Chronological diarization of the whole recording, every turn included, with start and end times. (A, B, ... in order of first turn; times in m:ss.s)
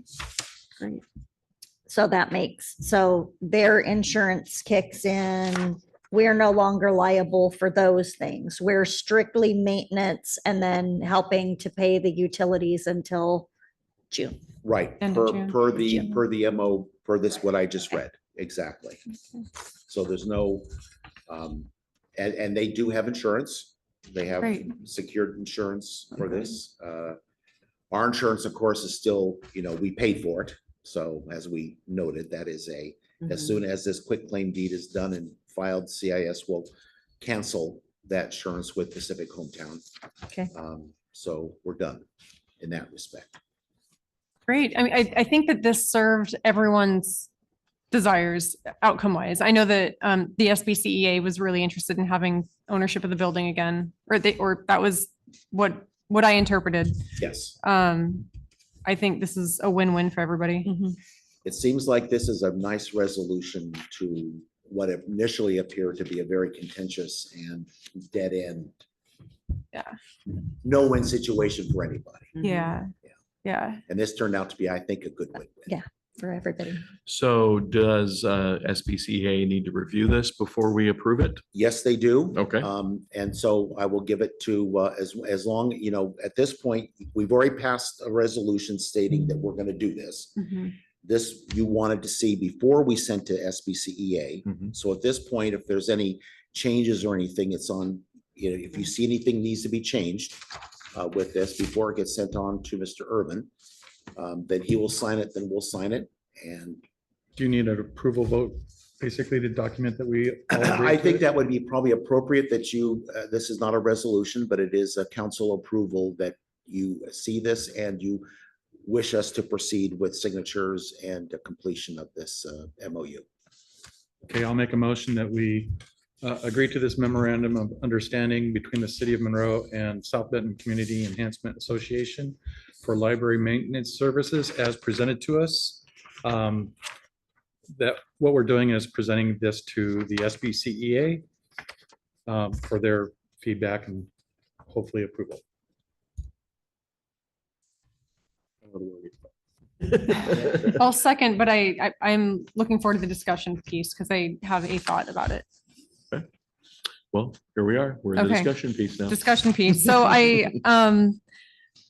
0:01.9-0:13.5 A
0:14.1-0:14.4 A
0:14.6-0:19.0 B
0:15.0-0:15.6 C
0:19.9-0:20.7 B
0:21.3-0:27.2 B
0:24.4-0:24.7 C
0:27.9-0:39.8 B
0:40.5-0:42.0 B
0:42.6-0:43.4 B
0:44.5-0:47.3 C
0:47.9-0:57.0 C
0:57.2-0:57.5 B
0:57.6-0:58.3 C
0:58.8-1:00.7 C
1:00.6-1:01.0 A
1:01.4-1:08.8 B
1:10.6-1:12.3 B
1:12.4-1:12.9 C
1:13.4-1:13.8 C
1:13.9-1:15.7 B
1:15.7-1:16.8 A
1:17.0-1:21.4 D
1:21.5-1:40.4 B
1:22.3-1:22.7 D
1:40.9-1:43.5 B
1:44.2-1:46.8 B
1:47.4-1:51.2 E
1:50.5-1:58.2 B
1:58.8-2:03.2 B
2:04.2-2:16.7 E
2:17.8-2:21.2 E
2:22.2-2:24.1 E
2:24.6-2:25.4 E
2:28.6-2:29.2 D
2:29.8-2:30.8 D
2:30.7-2:35.4 C
2:37.1-2:39.2 D
2:38.1-2:41.2 C